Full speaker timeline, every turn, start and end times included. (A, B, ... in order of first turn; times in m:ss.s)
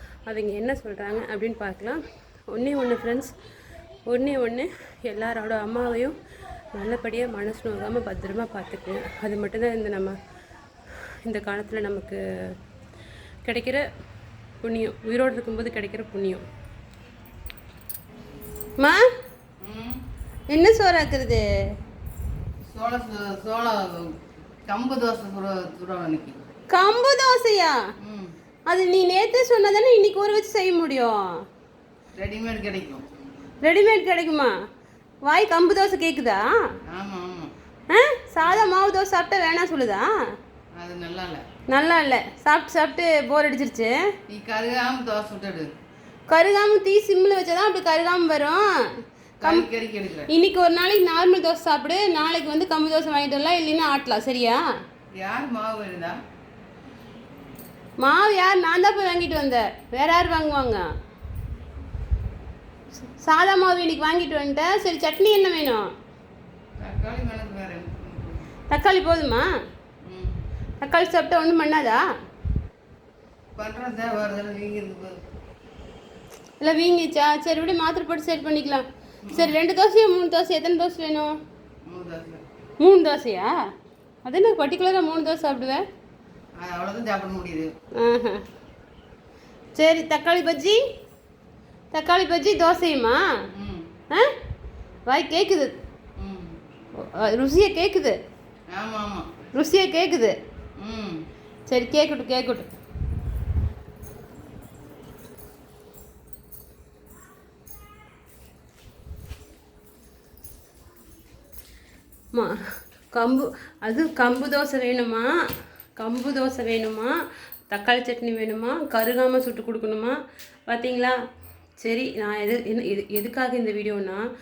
0:00.3-0:03.3 A
0:04.1-0:06.2 A
0:06.7-0:10.2 A
0:11.3-0:12.6 A
0:13.4-0:13.8 A
0:14.6-0:16.4 A
0:19.6-0:20.0 B
0:20.5-0:21.5 A
0:22.7-0:26.4 B
0:26.7-0:27.8 A
0:28.0-0:28.3 B
0:28.7-0:31.2 A
0:32.2-0:33.0 B
0:33.6-0:34.5 A
0:35.3-0:36.5 A
0:36.9-0:37.5 B
0:37.9-0:40.1 A
0:40.8-0:41.4 B
0:41.7-0:44.0 A
0:44.3-0:45.7 B
0:46.3-0:48.6 A
0:49.4-0:50.3 B
0:50.3-0:54.6 A
0:55.2-0:56.2 B
0:58.0-1:00.8 A
1:03.2-1:05.9 A
1:06.8-1:08.5 B
1:08.7-1:09.5 A
1:10.0-1:10.4 B
1:10.8-1:12.1 A
1:13.6-1:15.2 B
1:16.6-1:21.3 A
1:19.3-1:19.6 B
1:21.9-1:22.4 B
1:22.8-1:23.6 A
1:24.2-1:25.8 A
1:26.6-1:27.7 B
1:28.0-1:28.4 A
1:29.8-1:30.8 A
1:31.9-1:33.2 A
1:33.6-1:33.9 B
1:35.1-1:35.8 A
1:36.2-1:36.6 B
1:37.0-1:38.2 A
1:38.7-1:39.3 B
1:39.6-1:40.4 A
1:40.8-1:41.2 B
1:41.7-1:42.7 A
1:52.3-1:55.3 A
1:56.0-1:57.1 A
1:57.7-2:00.2 A
2:00.7-2:01.2 A
2:01.8-2:04.2 A